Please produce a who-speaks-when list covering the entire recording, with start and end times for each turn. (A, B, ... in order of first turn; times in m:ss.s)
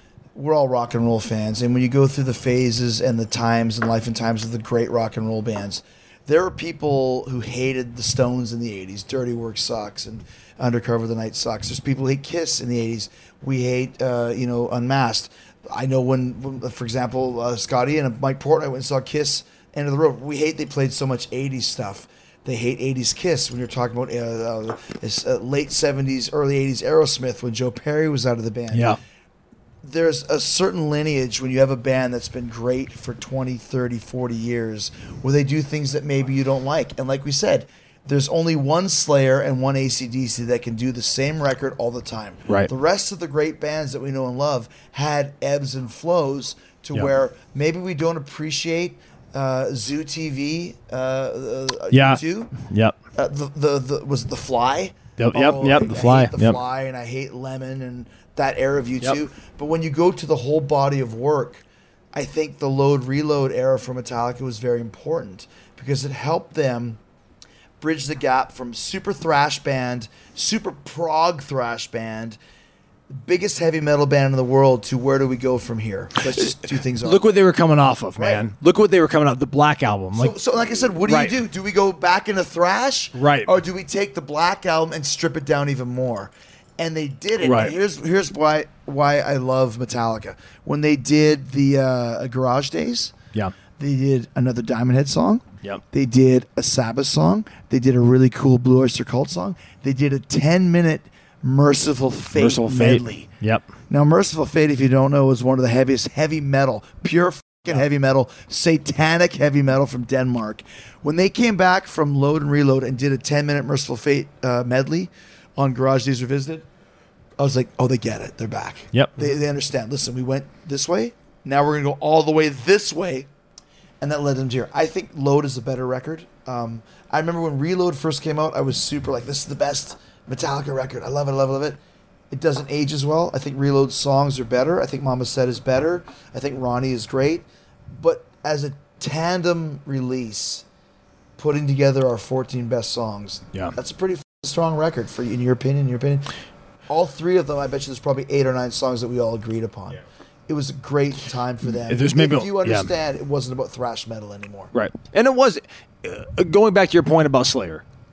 0:00.4-0:29.0 A
0:28.7-0:29.0 B
0:29.8-0:52.5 A
0:51.9-0:53.0 B
0:53.2-1:01.6 A
0:55.2-0:56.6 B
1:02.1-1:07.0 A
1:07.8-1:12.4 A
1:13.1-1:17.3 A
1:16.2-1:20.4 B
1:18.2-1:18.5 A
1:20.2-1:33.2 A
1:21.0-1:21.3 B
1:23.2-1:23.5 B
1:27.4-1:27.8 B
1:33.8-1:43.3 A
1:42.4-1:43.6 B
1:43.9-1:56.7 A
1:57.4-2:03.3 A
2:04.0-2:11.8 A
2:12.3-2:20.6 A
2:21.4-2:26.3 A
2:26.9-2:34.7 A
2:31.8-2:32.9 B
2:34.7-2:37.8 B